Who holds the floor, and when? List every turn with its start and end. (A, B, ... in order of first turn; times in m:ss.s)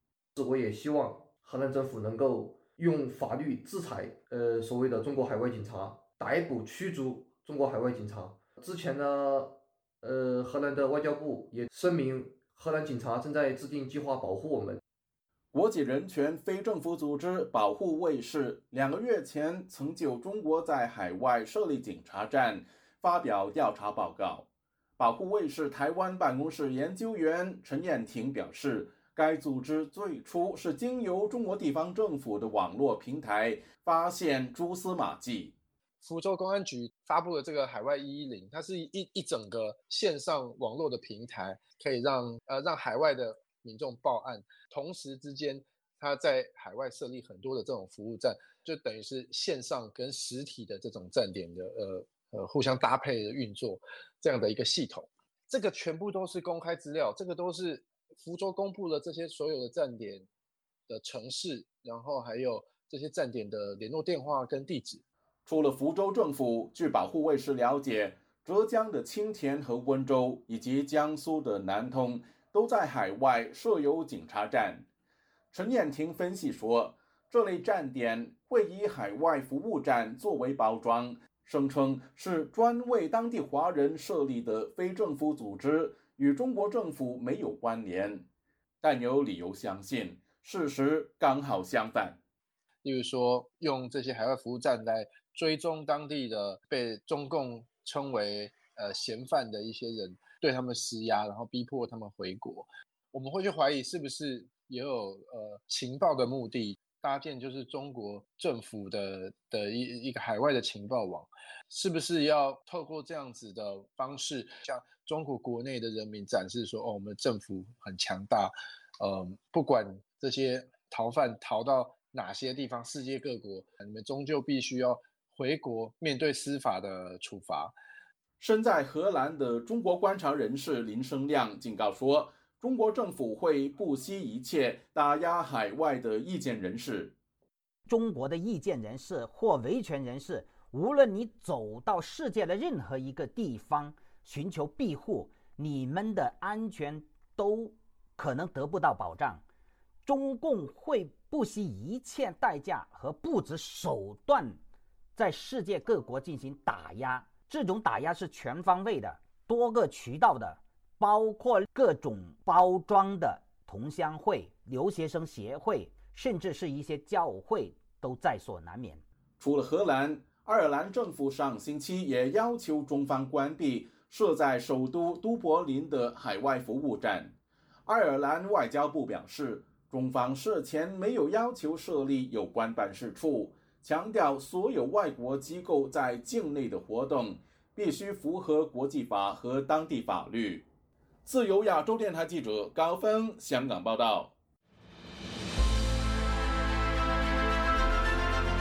0:00.4-0:14.8 A
0:15.5-0:24.4 B
0:25.0-0:35.5 B
0:36.0-1:00.2 C
1:00.9-1:05.0 C
1:05.5-1:14.8 B
1:15.5-1:28.2 B
1:28.8-1:32.2 B
1:32.8-2:07.7 C
2:08.4-2:17.1 B
2:17.9-2:29.4 D
2:30.0-2:34.6 D
2:35.2-2:49.0 D
2:49.4-2:57.3 B
2:57.8-3:10.6 B
3:11.2-3:14.3 B